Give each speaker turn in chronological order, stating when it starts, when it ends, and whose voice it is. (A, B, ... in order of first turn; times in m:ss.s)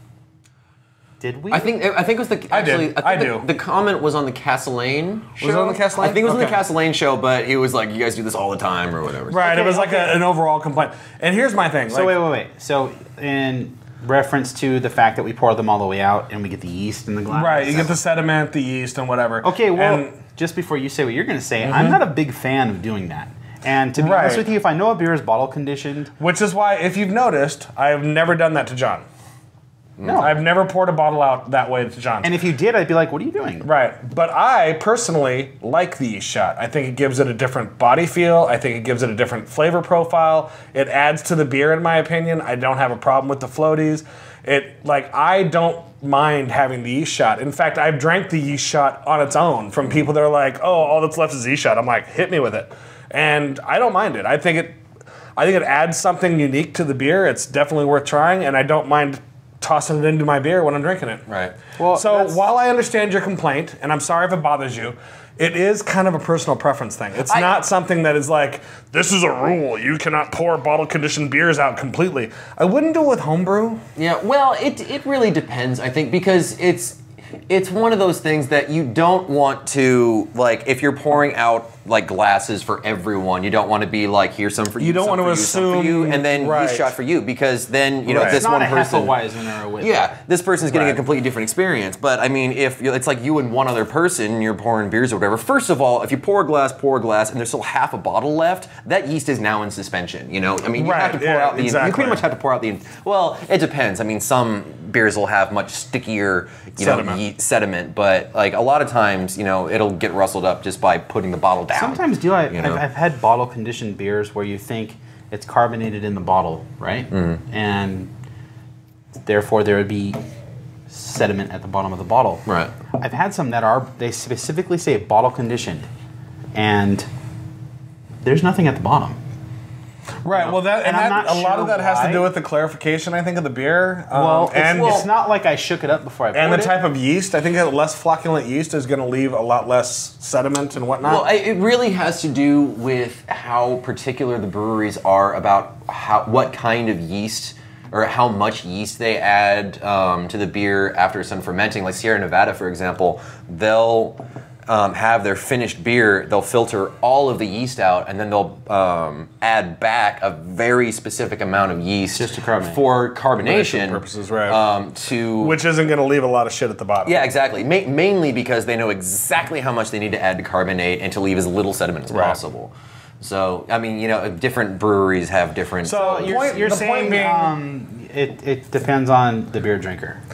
0:01.2-0:01.8 A
0:01.5-0:09.4 B
0:02.5-0:03.5 C
0:05.4-0:06.7 C
0:09.3-0:12.2 C
0:09.3-0:10.2 A
0:11.9-0:18.0 A
0:17.3-0:20.2 C
0:19.4-0:26.1 A
0:21.6-0:22.0 C
0:23.9-0:24.5 C
0:26.2-0:29.0 C
0:30.0-0:30.3 B
0:30.0-0:30.4 A
0:30.1-0:32.4 C
0:32.2-0:33.7 A
0:33.6-0:54.8 C
0:55.4-1:01.3 C
1:01.3-1:01.6 B
1:01.8-1:02.4 A
1:01.9-1:13.8 C
1:07.2-1:07.6 B
1:14.0-1:29.2 B
1:24.8-1:27.0 C
1:28.1-1:28.4 C
1:28.1-1:30.2 A
1:29.8-1:52.8 B
1:40.7-1:42.3 C
1:46.8-1:47.2 C
1:51.7-1:58.1 A
1:57.1-1:57.4 B
1:59.2-2:00.2 A
2:00.9-2:02.4 A
2:02.5-2:02.7 B
2:03.0-2:05.9 A
2:06.5-2:07.1 A
2:08.2-2:09.2 A
2:10.2-2:15.1 C
2:10.3-2:12.3 A
2:14.1-2:16.8 A
2:14.7-2:15.1 B
2:16.3-2:21.3 C
2:21.0-2:45.6 B
2:42.1-2:42.8 A
2:43.4-2:44.6 C
2:45.4-2:47.3 C
2:47.0-2:56.6 B
2:52.1-2:52.4 C
2:55.8-2:57.6 C
2:55.9-3:00.2 A